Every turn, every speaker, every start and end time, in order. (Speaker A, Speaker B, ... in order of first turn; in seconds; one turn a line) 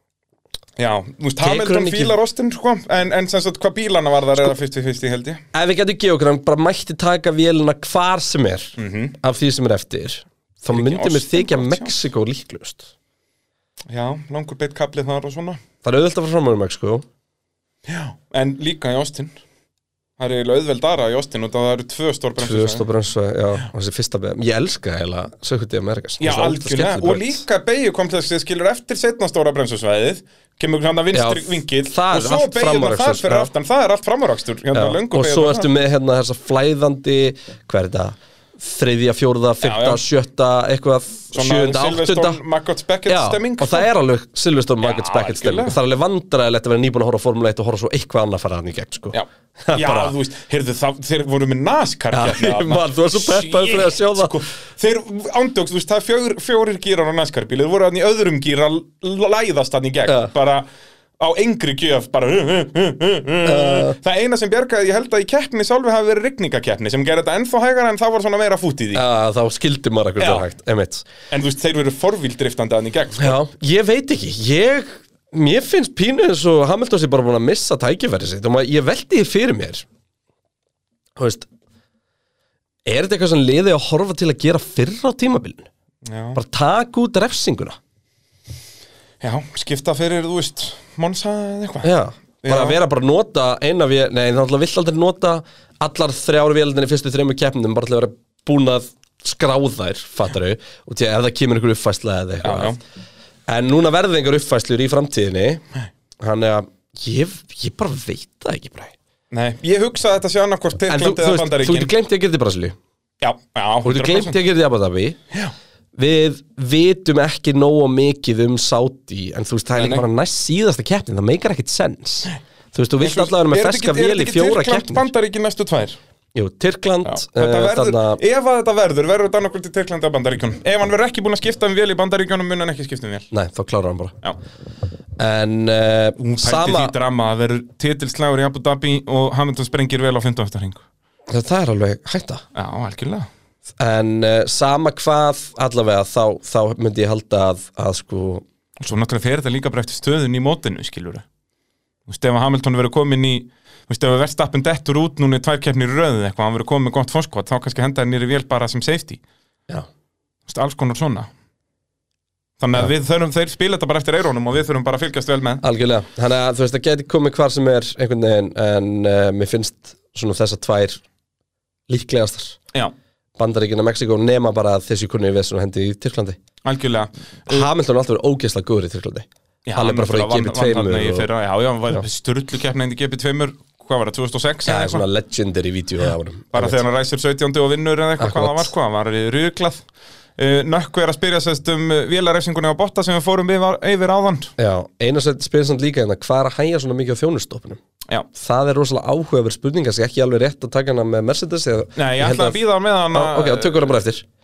Speaker A: 0.8-5.4
Speaker B: 1.4-2.1
Speaker B: 5.5-12.9
Speaker A: 8.8-9.2
Speaker A: 10.7-11.9
Speaker A: 13.9-15.6
Speaker B: 15.8-17.0
Speaker A: 17.9-19.4
Speaker A: 20.2-22.9
Speaker B: 22.4-27.4
Speaker A: 26.2-35.7
Speaker B: 31.1-33.5
Speaker B: 34.7-42.4
Speaker A: 39.6-40.0
Speaker A: 41.3-43.9
Speaker B: 43.1-50.1
Speaker A: 44.8-45.8
Speaker A: 49.1-60.7
Speaker B: 52.1-54.4
Speaker A: 61.2-69.0
Speaker B: 63.4-64.0
Speaker B: 68.9-71.0
Speaker A: 70.2-70.4
Speaker A: 71.3-73.4
Speaker B: 73.2-79.8
Speaker B: 81.2-81.5
Speaker B: 82.8-85.7
Speaker A: 86.0-86.4
Speaker B: 86.3-87.8
Speaker A: 89.2-91.9
Speaker B: 91.8-102.8
Speaker A: 92.4-92.8
Speaker A: 102.4-102.8
Speaker B: 103.5-105.6
Speaker B: 106.2-108.9
Speaker A: 109.3-111.9
Speaker B: 110.9-112.8
Speaker A: 113.2-114.4
Speaker B: 113.8-115.2
Speaker B: 115.9-125.1
Speaker A: 119.7-120.0
Speaker A: 123.0-126.0
Speaker B: 126.3-128.2
Speaker A: 127.0-133.3
Speaker B: 133.3-134.1
Speaker B: 135.2-136.9
Speaker A: 136.2-140.8
Speaker B: 141.3-142.4
Speaker A: 142.5-143.3
Speaker B: 143.8-148.4
Speaker A: 148.8-151.2
Speaker A: 152.1-159.2
Speaker A: 160.5-161.3
Speaker A: 162.6-165.6
Speaker B: 165.6-171.0
Speaker B: 171.9-172.6
Speaker B: 173.4-176.4
Speaker A: 176.6-177.7
Speaker B: 177.5-181.3
Speaker A: 179.7-185.0
Speaker B: 184.7-186.8
Speaker A: 186.5-189.8
Speaker B: 188.2-188.7
Speaker A: 190.4-194.5
Speaker B: 194.6-197.8
Speaker B: 198.3-204.2
Speaker A: 201.9-203.8